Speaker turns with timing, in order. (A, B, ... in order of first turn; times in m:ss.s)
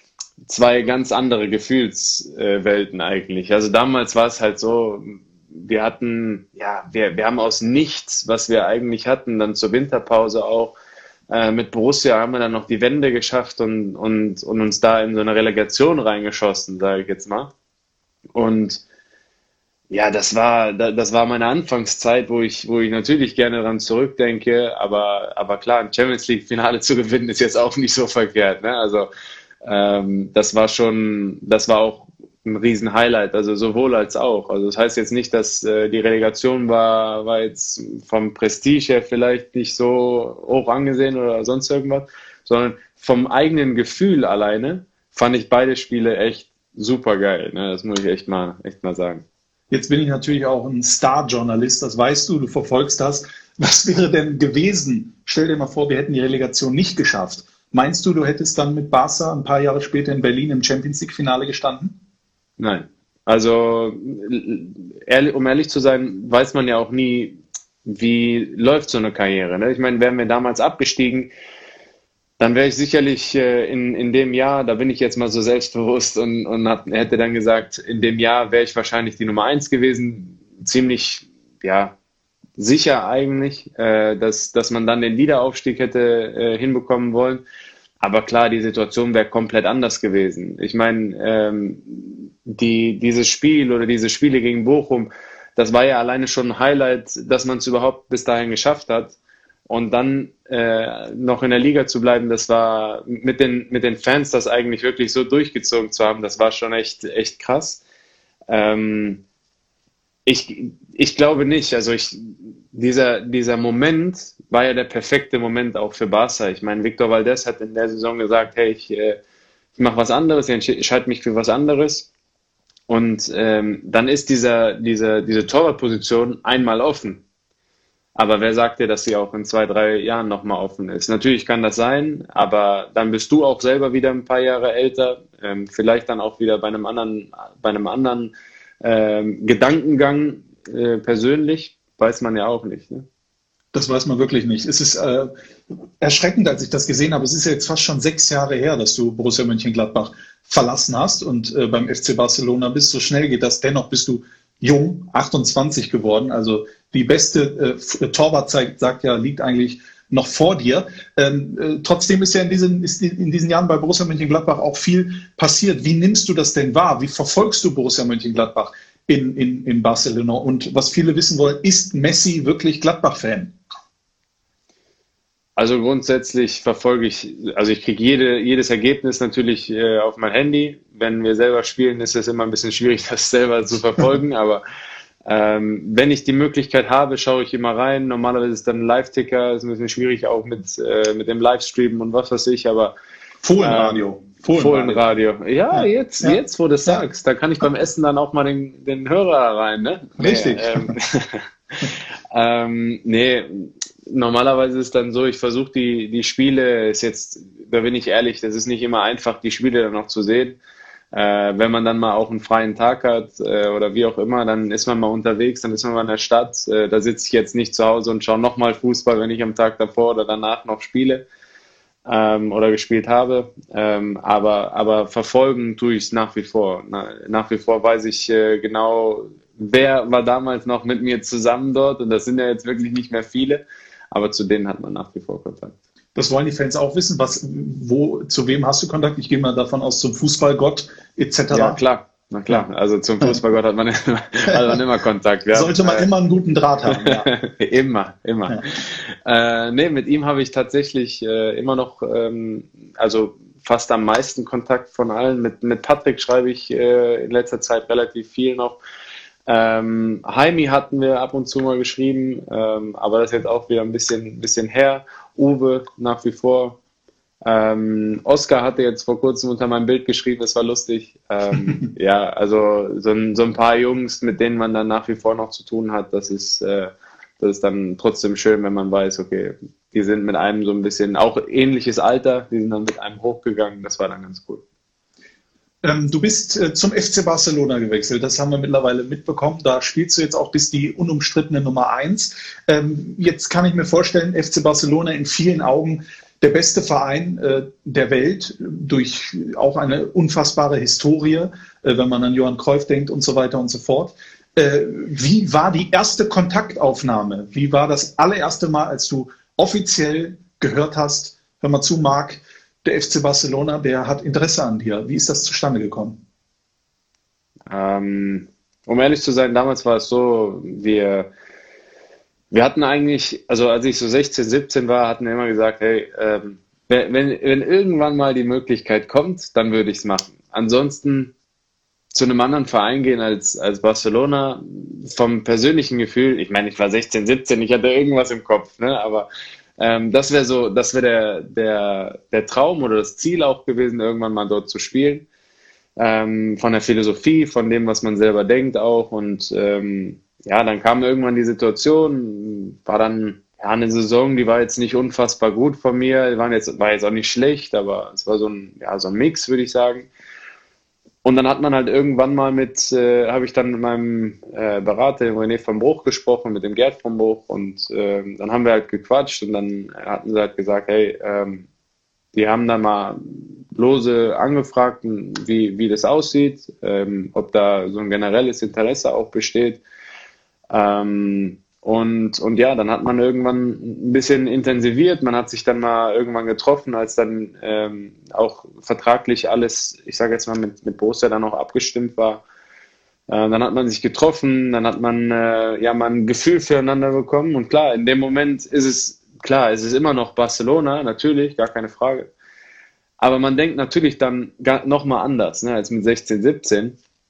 0:00.4-0:10.7 A
0:11.3-0:17.5 A
0:18.3-0:18.8 A
0:19.9-0:29.1 A
0:29.6-0:49.2 A
0:49.7-1:02.0 B
1:02.6-1:11.3 A
1:12.4-1:21.9 A
1:22.6-1:27.4 A
1:28.0-1:39.1 A
1:39.7-1:47.8 A
1:48.5-1:49.2 A
1:50.2-1:59.2 A
1:59.8-2:02.1 A
2:02.9-2:07.2 A
2:08.2-2:18.3 A
2:18.8-2:23.0 A
2:23.7-2:25.3 B
2:26.0-2:53.5 B
2:55.6-3:04.6 A
3:05.2-3:12.9 A
3:13.4-3:15.0 B
3:13.6-3:30.6 A
3:15.7-3:17.0 B
3:20.2-3:20.9 B
3:31.1-3:41.2 A
3:42.0-3:53.6 A
3:54.1-3:55.7 A
3:56.1-4:01.8 B
4:01.5-4:06.1 A
4:05.5-4:07.3 B
4:06.9-4:18.8 A
4:19.5-4:26.8 A
4:27.4-4:44.6 A
4:45.8-5:16.2 B
5:17.7-5:21.3 A
5:22.5-5:31.3 A
5:32.1-5:39.3 A
5:39.8-5:45.2 A
5:46.0-6:00.1 A
6:01.2-6:11.6 A
6:12.3-6:19.8 A
6:20.7-6:32.4 A
6:33.3-6:42.3 A
6:43.2-6:46.9 A